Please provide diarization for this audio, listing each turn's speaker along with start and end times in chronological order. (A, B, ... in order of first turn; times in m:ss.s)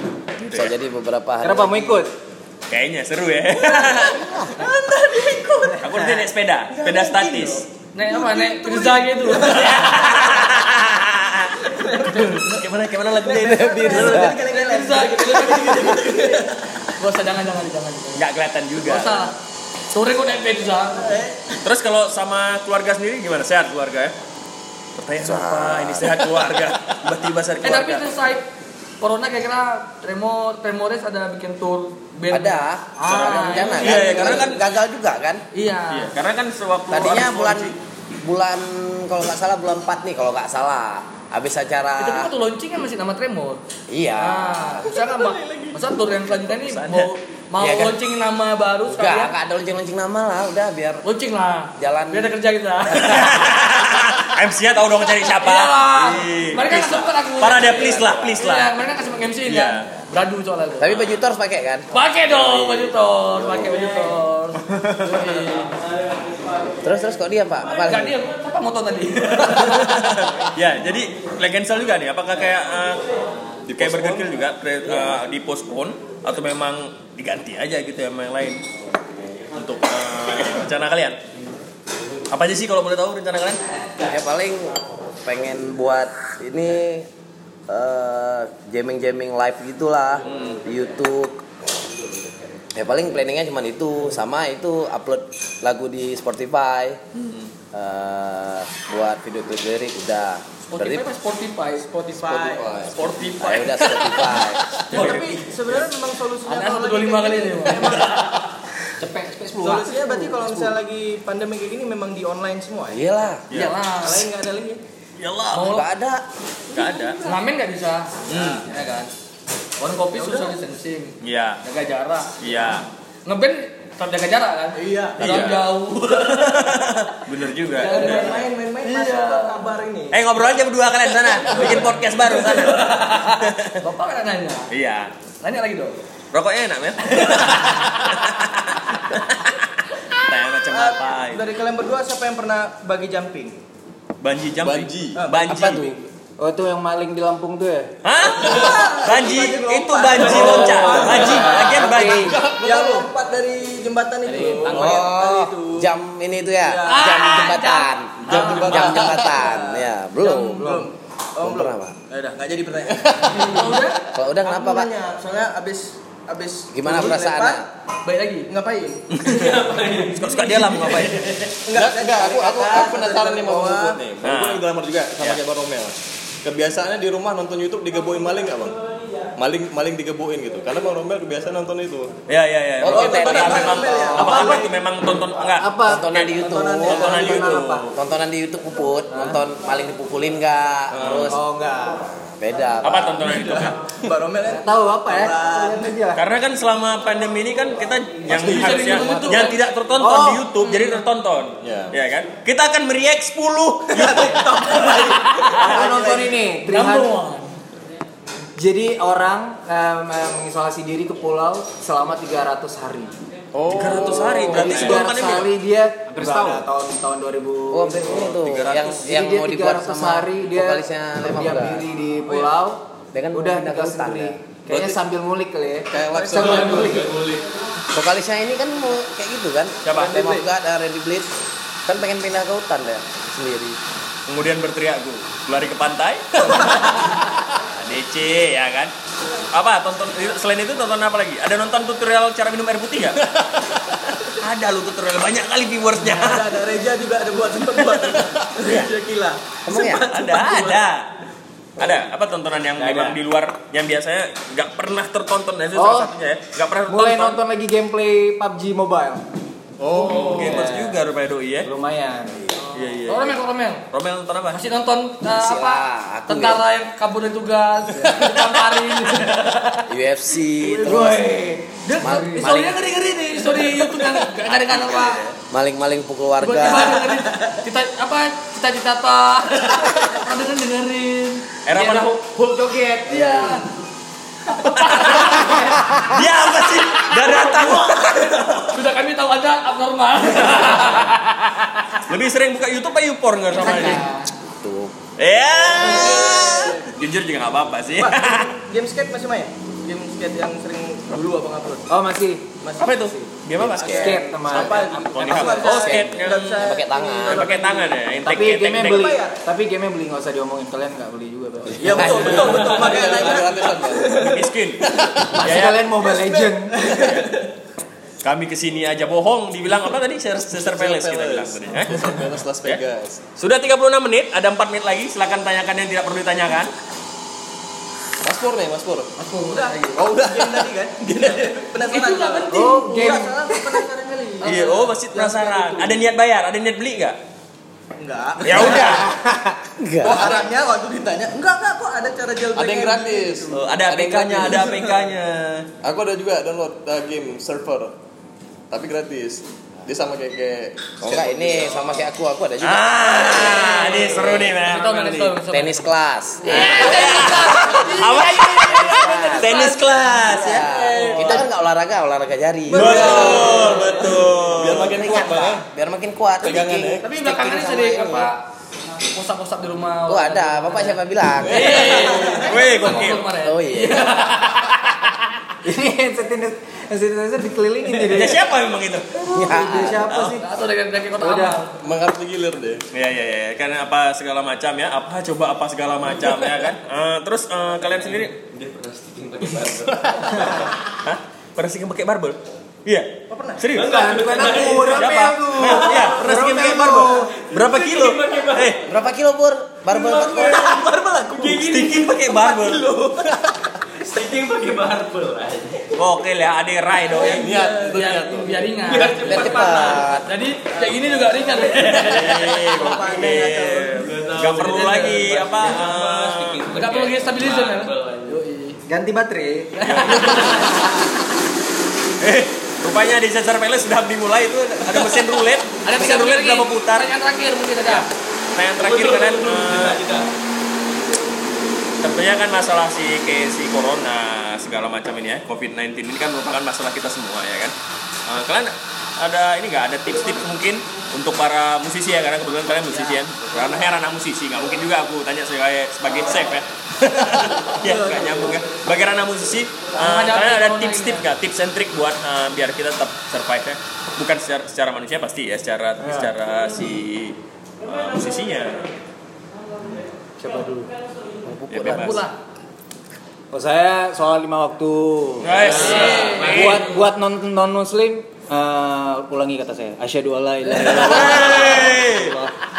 0:00.4-0:00.7 A
0:00.4-0:02.1 B
0:01.4-0:02.1 C
0:02.7-0:04.3 A
0:03.6-0:06.2 D
0:04.1-0:04.6 B
0:05.8-0:07.7 A
0:06.7-0:10.1 D
0:07.9-0:10.0 E
0:09.4-0:14.3 A
0:11.6-0:12.5 D
0:12.1-0:12.4 E
0:13.2-0:16.5 D
0:13.3-0:14.4 B
0:14.0-0:16.4 E
0:17.0-0:18.2 E
0:18.2-0:19.3 A
0:18.8-0:19.4 E
0:19.9-0:21.2 E
0:20.9-0:21.6 D
0:21.6-0:24.1 A
0:25.0-0:28.1 A
0:25.2-0:26.4 B
0:27.6-0:28.5 E
0:29.0-0:34.5 E
0:32.3-0:35.4 B
0:33.1-0:34.6 A
0:35.5-0:36.1 E
0:35.9-0:37.8 A
0:36.9-0:42.3 B
0:42.0-0:43.6 E
0:43.9-0:44.9 B
0:44.2-0:49.3 E
0:44.9-0:45.8 D
0:46.2-0:47.1 A
0:47.6-0:48.0 B
0:48.9-0:51.0 B
0:51.0-0:53.5 E
0:51.8-0:52.3 B
0:52.9-0:58.8 A
0:55.4-1:01.0 E
0:57.6-0:58.4 B
0:59.5-0:59.9 A
1:00.8-1:01.9 B
1:01.9-1:05.7 E
1:02.3-1:02.9 A
1:03.4-1:03.9 B
1:04.7-1:05.3 A
1:06.8-1:08.2 B
1:07.7-1:10.0 E
1:09.4-1:13.1 A
1:13.7-1:14.4 F
1:13.7-1:18.6 A
1:14.9-1:15.1 B
1:19.5-1:21.2 A
1:22.3-1:23.6 A
1:24.1-1:27.1 B
1:27.7-1:31.4 B
1:32.8-1:37.0 B
1:37.7-1:41.0 B
1:40.7-1:42.3 E
1:42.0-1:42.8 D
1:42.2-1:43.5 F
1:43.0-1:44.2 A
1:43.4-1:44.8 B
1:43.8-1:44.1 E
1:44.9-1:45.2 E
1:44.9-1:45.8 A
1:44.9-1:48.4 D
1:46.5-1:48.4 E
1:49.0-1:50.7 C
1:49.5-1:53.2 D
1:52.9-1:53.4 B
1:53.5-1:53.8 A
1:53.5-1:54.3 E
1:54.0-1:54.8 D
1:55.2-1:55.8 A
1:55.5-1:55.9 E
1:55.7-1:56.2 B
1:56.7-1:57.2 A
1:56.8-1:57.3 D
1:57.2-1:59.1 E
1:58.3-1:58.7 A
1:58.3-1:58.8 D
1:59.8-2:02.4 E
2:00.1-2:00.6 D
2:01.2-2:01.6 A
2:02.4-2:02.9 A
2:03.3-2:06.7 E
2:04.8-2:05.5 D
2:05.2-2:08.3 A
2:07.7-2:10.5 D
2:07.8-2:09.6 E
2:10.1-2:13.8 A
2:11.4-2:14.7 E
2:11.5-2:11.9 D
2:14.7-2:15.1 A
2:15.4-2:16.0 E
2:16.3-2:19.6 A
2:17.2-2:17.9 E
2:20.2-2:21.4 A
2:20.7-2:23.6 D
2:24.2-2:26.0 A
2:24.6-2:25.2 F
2:25.2-2:25.7 D
2:25.5-2:26.0 B
2:26.4-2:28.0 C
2:28.0-2:32.4 A
2:28.2-2:35.9 D
2:30.2-2:32.4 C
2:30.3-2:33.1 F
2:34.3-2:34.7 E
2:34.7-2:40.8 B
2:36.6-2:37.5 D
2:36.9-2:39.1 E
2:38.3-2:39.2 F
2:38.3-2:43.8 D
2:40.2-2:40.6 E
2:41.4-2:42.0 B
2:43.3-2:44.0 E
2:44.1-2:44.9 B
2:44.3-2:47.6 D
2:46.7-2:47.7 B
2:48.0-2:48.5 E
2:48.5-2:49.1 D
2:49.2-2:49.6 A
2:49.3-2:51.5 G
2:50.1-2:51.3 A
2:50.3-2:50.6 E
2:51.6-2:54.0 D
2:51.7-2:58.8 F
2:54.2-2:55.4 A
2:59.4-3:02.1 F
3:02.3-3:07.9 A
3:02.8-3:04.4 B
3:02.9-3:04.7 D
3:04.0-3:04.7 C
3:05.6-3:07.9 C
3:05.8-3:11.4 B
3:06.4-3:07.4 D
3:09.1-3:09.4 C
3:10.9-3:11.3 F
3:11.0-3:11.4 A
3:11.3-3:12.0 C
3:12.4-3:13.4 B
3:12.8-3:13.8 A
3:13.2-3:16.0 D
3:14.5-3:16.2 C
3:16.2-3:25.9 A
3:18.3-3:19.0 F
3:18.3-3:19.6 E
3:20.0-3:20.5 C
3:20.6-3:21.0 E
3:21.6-3:21.9 F
3:23.9-3:26.3 D
3:25.6-3:27.1 C
3:26.7-3:27.6 E
3:28.6-3:33.2 C
3:33.5-3:35.1 F
3:33.7-3:35.5 A
3:34.2-3:38.4 C
3:37.7-3:41.8 B
3:38.4-3:39.0 A
3:39.0-3:47.1 C
3:43.1-3:44.4 B
3:44.7-3:45.0 F
3:45.9-3:46.9 F
3:46.1-3:47.0 D
3:46.3-3:47.4 G
3:47.9-3:51.3 B
3:49.8-3:50.2 A
3:49.9-3:50.5 D
3:51.9-3:53.8 B
3:54.3-3:58.9 A
3:59.5-4:03.3 A
4:03.8-4:06.5 A
4:06.0-4:10.8 D
4:08.6-4:08.9 B
4:09.7-4:10.0 B
4:10.1-4:11.1 A
4:11.8-4:17.4 A
4:12.8-4:13.2 C
4:15.7-4:16.1 C
4:16.9-4:19.3 C
4:19.8-4:20.7 F
4:19.9-4:21.7 A
4:20.1-4:21.0 C
4:21.6-4:22.6 C
4:22.6-4:22.9 D
4:22.7-4:24.6 A
4:23.1-4:23.8 E
4:24.5-4:29.8 E
4:25.4-4:26.6 B
4:29.9-4:31.4 B
4:30.6-4:31.5 D
4:30.8-4:31.5 C
4:31.7-4:35.2 E
4:32.0-4:32.8 B
4:32.0-4:32.5 C
4:34.5-4:35.3 A
4:35.5-4:37.1 B
4:36.4-4:41.6 E
4:37.2-4:37.5 D
4:41.7-4:42.3 A
4:41.7-4:43.6 C
4:43.1-4:43.6 E
4:44.5-4:45.6 E
4:44.6-4:48.7 A
4:47.4-4:47.7 E
4:48.6-4:51.4 E
4:50.4-4:51.3 A
4:52.0-4:54.1 A
4:53.6-4:55.0 B
4:53.6-4:54.3 E
4:55.2-4:58.6 A
4:55.6-4:56.9 D
4:58.0-5:01.9 D
5:01.9-5:03.2 C
5:02.6-5:03.0 D
5:02.8-5:06.7 A
5:03.6-5:04.2 B
5:03.8-5:05.8 C
5:03.8-5:08.0 D
5:05.6-5:07.6 B
5:07.3-5:09.2 A
5:08.1-5:12.6 C
5:08.8-5:09.4 D
5:11.8-5:14.5 D
5:11.9-5:15.3 F
5:11.9-5:12.6 B
5:12.0-5:13.1 A
5:14.0-5:14.8 A
5:15.3-5:16.8 C
5:15.4-5:15.9 A
5:16.0-5:17.5 D
5:18.2-5:22.8 A
5:20.5-5:23.2 F
5:23.4-5:26.7 A
5:28.2-5:29.1 F
5:29.2-5:30.1 E
5:29.5-5:36.0 D
5:30.0-5:31.4 F
5:31.8-5:33.2 E
5:32.5-5:33.8 C
5:34.4-5:34.9 E
5:34.4-5:37.2 A
5:38.0-5:39.1 D
5:38.4-5:39.1 A
5:39.0-5:39.6 C
5:39.8-5:40.4 B
5:40.0-5:43.8 D
5:42.5-5:44.7 F
5:43.5-5:45.7 A
5:44.5-5:45.0 D
5:45.8-5:47.9 F
5:48.7-5:51.9 F
5:51.0-5:54.5 B
5:52.6-5:55.4 A
5:53.7-5:55.9 E
5:55.5-5:57.5 B
5:56.4-6:01.4 A
5:56.5-5:59.9 E
5:58.8-5:59.5 B
6:00.1-6:04.0 B
6:00.7-6:01.4 D
6:02.7-6:04.4 D
6:02.7-6:05.0 A
6:02.8-6:03.9 F
6:04.5-6:05.7 F
6:04.8-6:08.3 B
6:06.4-6:07.1 F
6:07.0-6:08.4 E
6:09.0-6:14.8 E
6:10.1-6:12.5 B
6:11.4-6:12.3 F
6:12.5-6:13.3 A
6:13.3-6:14.2 B
6:15.6-6:18.4 C
6:18.1-6:19.3 A
6:19.3-6:20.5 C
6:19.3-6:20.2 B
6:19.9-6:20.4 A
6:20.4-6:21.8 E
6:21.2-6:21.6 C
6:21.8-6:22.8 F
6:22.9-6:28.4 A
6:28.0-6:30.7 G
6:30.0-6:33.9 A
6:33.3-6:33.8 D
6:33.7-6:38.8 G
6:33.8-6:37.3 C
6:34.8-6:38.8 A
6:38.9-6:40.8 B
6:39.9-6:42.8 G
6:40.1-6:43.4 D
6:41.4-6:42.9 A
6:44.0-6:46.0 G
6:46.0-6:47.5 A
6:47.2-6:52.3 E
6:47.2-6:48.7 F
6:47.2-6:48.0 D
6:48.8-6:50.0 G
6:49.3-6:50.3 B
6:51.5-6:53.0 G
6:51.6-6:54.1 D
6:51.9-6:56.6 A
6:54.0-6:58.4 G
6:56.7-6:58.8 E
6:58.9-6:59.7 C
6:59.8-7:00.7 E
6:59.8-7:00.9 A
7:00.2-7:00.4 G
7:02.2-7:07.1 A
7:05.8-7:08.1 E
7:07.9-7:10.0 A
7:08.8-7:10.3 G
7:12.0-7:17.7 A
7:18.3-7:38.9 A
7:22.8-7:23.6 D
7:27.8-7:28.6 D
7:30.0-7:31.3 E
7:36.0-7:36.3 C
7:40.4-7:40.9 C
7:41.4-7:42.2 B
7:41.7-7:42.3 A
7:41.9-7:42.4 E
7:43.5-7:51.9 C
7:45.4-7:47.0 A
7:45.6-7:46.7 E
7:50.8-7:52.4 A
7:51.1-7:52.5 F